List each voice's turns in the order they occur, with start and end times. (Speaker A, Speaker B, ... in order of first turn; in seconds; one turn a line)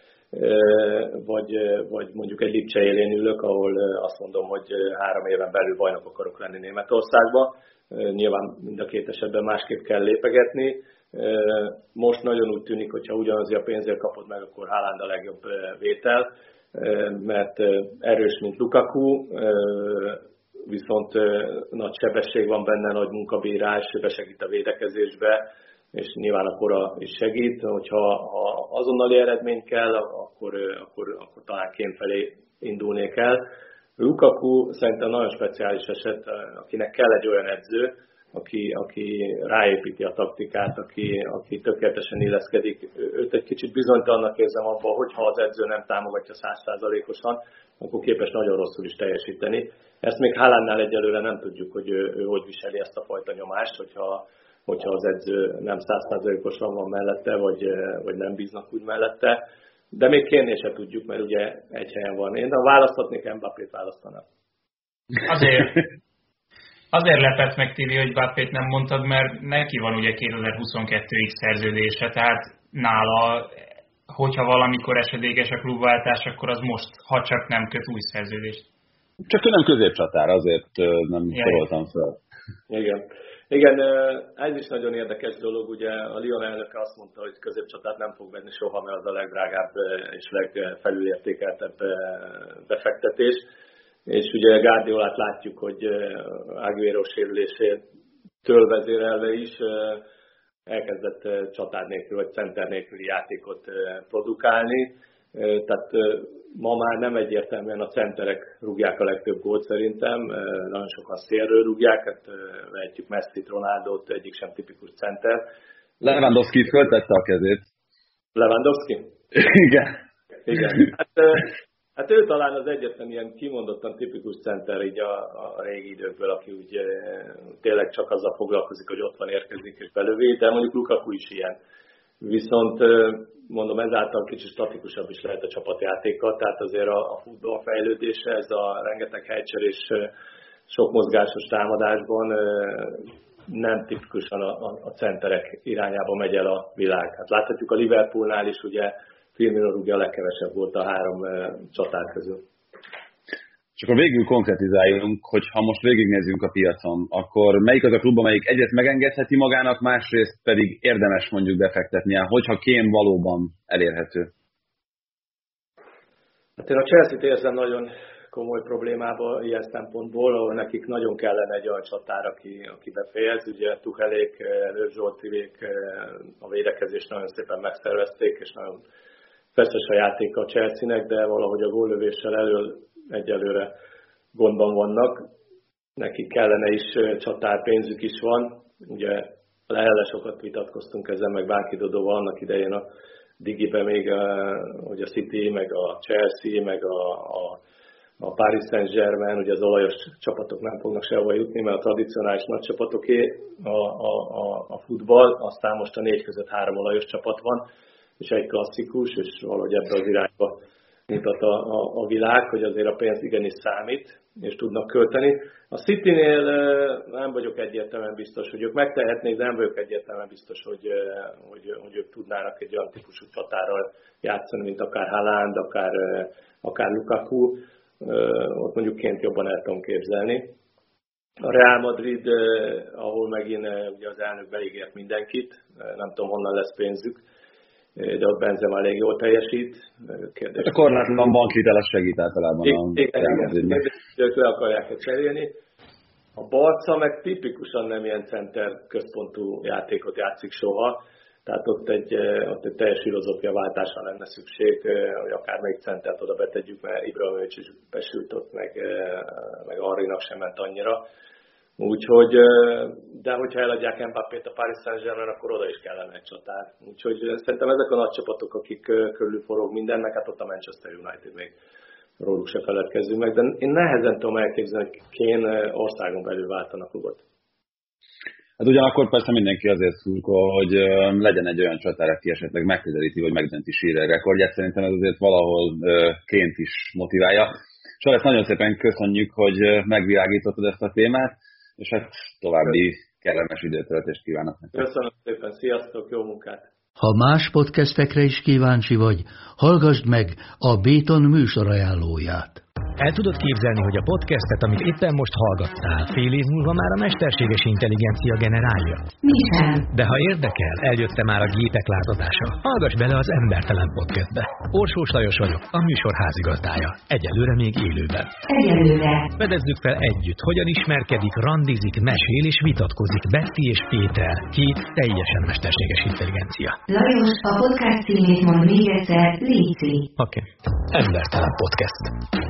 Speaker A: 0.3-33.4
Speaker A: 34.0-59.4
Speaker A: 59.9-64.2
Speaker B: 65.2-65.8
Speaker B: 66.9-73.5
Speaker B: 74.1-78.6
Speaker C: 79.3-82.2
Speaker B: 81.3-81.6
Speaker A: 82.7-93.4
Speaker A: 94.0-97.8
Speaker A: 98.4-100.0
Speaker A: 100.7-115.4
Speaker C: 116.0-117.7
Speaker A: 118.3-119.0
Speaker C: 119.3-119.9
Speaker A: 120.5-131.5
Speaker A: 132.2-140.1
Speaker A: 140.7-152.4
Speaker C: 153.8-164.3
Speaker A: 166.6-178.8
Speaker A: 179.5-183.7
Speaker A: 184.3-185.2
Speaker A: 186.0-192.8
Speaker A: 193.4-197.6
Speaker A: 198.2-207.6
Speaker A: 208.2-230.5
Speaker A: 231.4-237.2
Speaker A: 237.9-241.0
Speaker C: 240.6-243.8
Speaker A: 242.6-245.5
Speaker A: 246.3-261.0
Speaker A: 261.8-271.5
Speaker A: 272.2-277.2
Speaker C: 278.6-294.8
Speaker A: 294.7-296.7
Speaker D: 297.0-302.6
Speaker E: 303.0-309.1
Speaker F: 309.2-309.9
Speaker E: 309.9-318.3
Speaker F: 318.5-319.3
Speaker E: 319.4-326.8
Speaker F: 326.9-330.1
Speaker E: 330.2-332.1